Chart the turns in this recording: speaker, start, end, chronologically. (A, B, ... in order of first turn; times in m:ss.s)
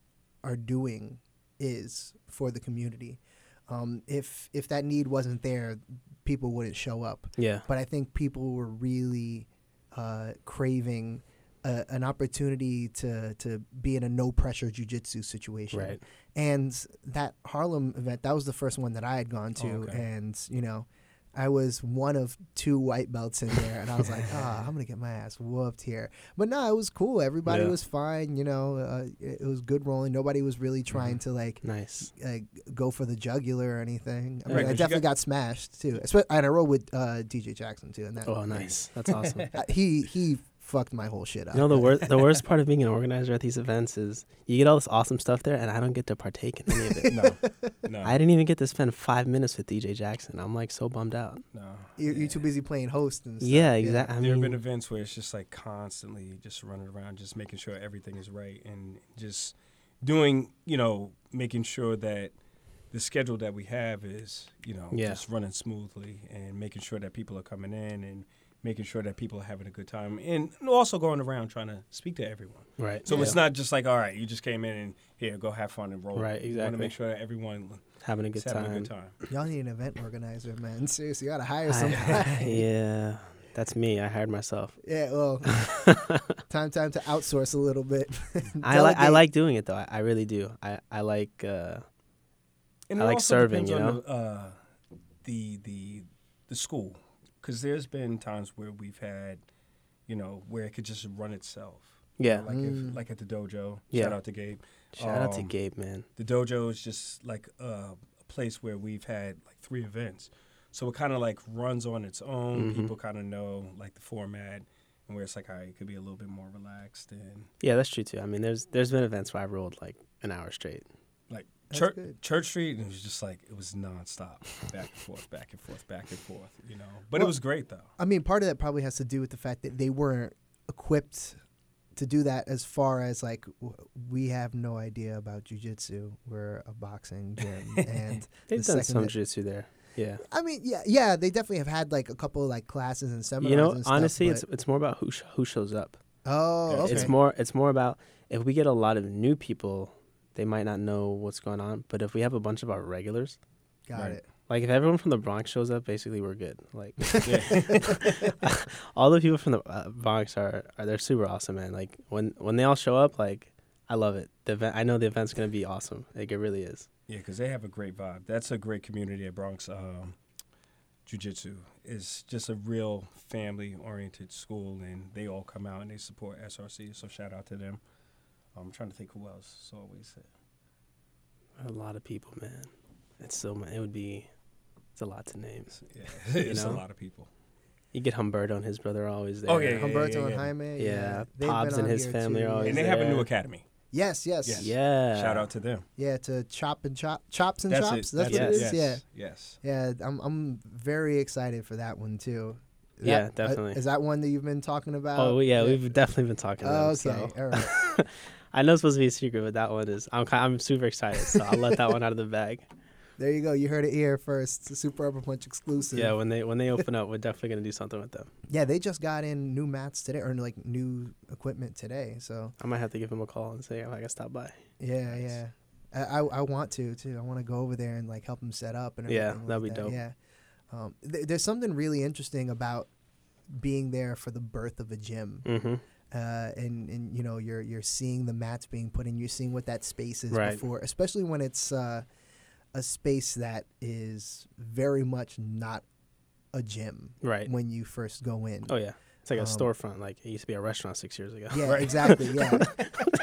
0:00.4-0:38.4 A
0:07.4-0:07.6 B
0:15.7-0:16.0 B
0:19.6-0:20.0 C
0:27.5-0:27.7 B
0:31.6-0:32.1 B
0:34.5-0:34.8 B
0:34.5-0:35.0 C
0:38.2-0:39.5 B
0:38.5-0:39.6 C
0:39.5-0:41.9 A
0:41.5-0:47.2 B
0:47.1-0:48.2 C
0:48.0-0:51.4 B
0:51.5-0:52.4 C
0:52.0-0:54.1 A
0:53.4-0:54.6 B
0:54.2-1:02.3 C
1:02.9-1:19.1 C
1:04.9-1:05.2 B
1:12.8-1:13.4 B
1:13.1-1:13.4 A
1:16.1-1:16.9 B
1:18.0-1:18.9 B
1:19.3-1:22.6 A
1:21.7-1:24.8 B
1:24.8-1:25.8 A
1:25.4-1:26.4 B
1:26.5-1:29.2 A
1:28.6-1:31.8 B
1:32.9-1:34.6 C
1:33.0-1:34.0 B
1:35.2-1:39.4 C
1:40.1-1:45.5 C
1:42.2-1:42.4 B
1:42.5-1:43.0 A
1:43.9-1:44.2 B
1:44.9-1:46.1 B
1:46.2-1:57.5 C
1:52.5-1:52.9 B
1:57.6-2:00.8 B
2:01.3-2:07.9 C
2:01.7-2:02.1 A
2:08.0-2:11.4 A
2:12.0-2:19.1 A
2:18.5-2:20.2 B
2:20.2-2:24.4 A
2:23.4-2:26.0 B
2:26.2-2:27.1 A
2:26.7-2:27.1 C
2:26.8-2:33.4 B
2:33.9-2:34.2 A
2:34.5-2:46.9 B
2:37.2-2:38.0 A
2:37.2-2:38.0 C
2:47.1-2:50.2 C
2:51.0-2:57.8 C
2:58.5-3:00.2 C
3:01.6-3:04.3 B
3:05.0-3:05.8 B
3:05.8-3:07.3 C
3:06.4-3:06.8 B
3:07.9-3:09.9 B
3:09.5-3:10.5 C
3:09.7-3:13.0 A
3:10.8-3:13.3 B
3:12.6-3:13.6 C
3:13.9-3:14.7 A
3:14.4-3:15.8 C
3:14.6-3:15.5 B
3:16.0-3:19.0 A
3:17.7-3:19.6 C
3:18.2-3:18.7 B
3:19.6-3:25.9 A
3:23.0-3:23.8 B
3:25.1-3:32.6 B
3:26.6-3:27.7 A
3:33.2-3:36.2 A
3:35.9-3:38.3 B
3:38.5-3:42.5 A
3:42.6-3:44.6 B
3:44.8-3:50.1 A
3:49.1-3:50.0 B
3:50.7-3:52.9 A
3:53.5-3:55.5 A
3:55.4-3:55.8 B
3:56.1-4:02.0 A
4:00.3-4:00.6 B
4:02.7-4:05.8 A
4:06.5-4:08.7 A
4:07.2-4:07.5 B
4:08.7-4:13.2 B
4:09.4-4:09.7 A
4:11.5-4:12.7 A
4:11.6-4:12.6 C